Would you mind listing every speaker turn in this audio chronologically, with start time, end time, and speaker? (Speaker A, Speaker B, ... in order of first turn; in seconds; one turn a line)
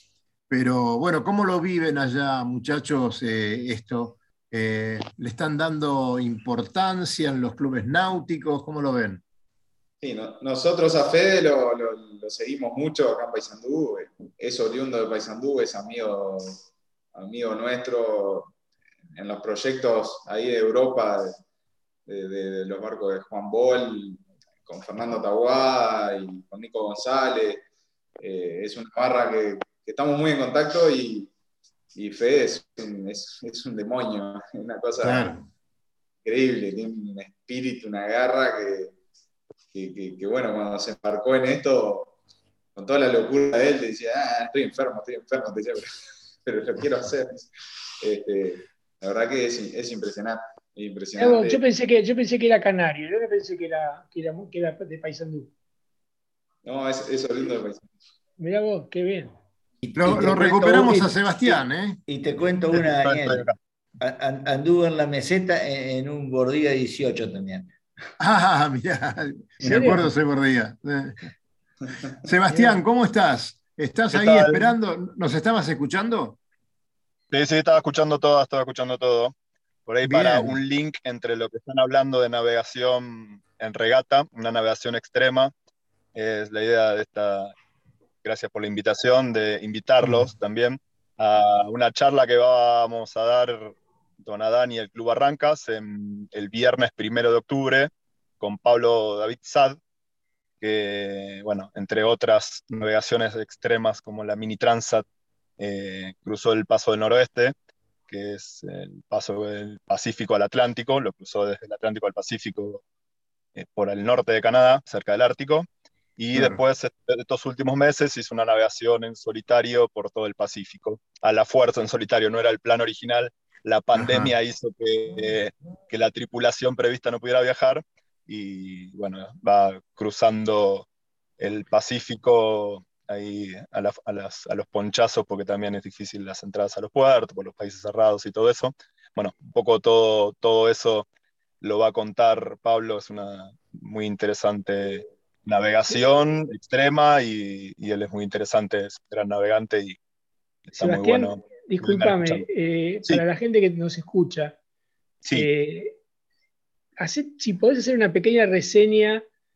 Speaker A: 0.5-9.2
Speaker B: 10.0-16.6
Speaker B: 17.1-18.5
Speaker B: 19.1-21.4
Speaker B: 22.1-27.6
Speaker B: 28.2-31.3
Speaker B: 31.9-35.3
Speaker A: 35.0-35.5
Speaker B: 36.2-38.9
Speaker B: 39.7-42.1
Speaker B: 42.8-45.9
Speaker B: 46.4-47.5
Speaker B: 48.0-51.6
Speaker C: 51.2-55.5
Speaker B: 56.6-57.8
Speaker C: 58.4-59.3
Speaker D: 59.8-63.5
Speaker A: 60.0-62.0
Speaker E: 62.7-63.5
Speaker D: 64.0-67.7
Speaker A: 68.2-71.3
Speaker C: 69.6-70.0
Speaker D: 69.7-70.0
Speaker A: 72.1-76.4
Speaker C: 72.5-72.8
Speaker E: 74.1-74.7
Speaker E: 77.3-79.3
Speaker E: 79.8-85.5
Speaker A: 80.0-80.6
Speaker E: 86.1-87.5
Speaker E: 88.2-99.8
Speaker E: 100.6-105.0
Speaker E: 105.6-107.5
Speaker E: 108.1-112.8
Speaker E: 113.5-130.8
Speaker A: 116.3-116.6
Speaker A: 123.9-124.3
Speaker E: 131.4-141.1
Speaker E: 141.6-150.0
Speaker E: 150.7-152.5
Speaker C: 150.8-154.6
Speaker C: 155.3-156.0
Speaker C: 157.0-159.2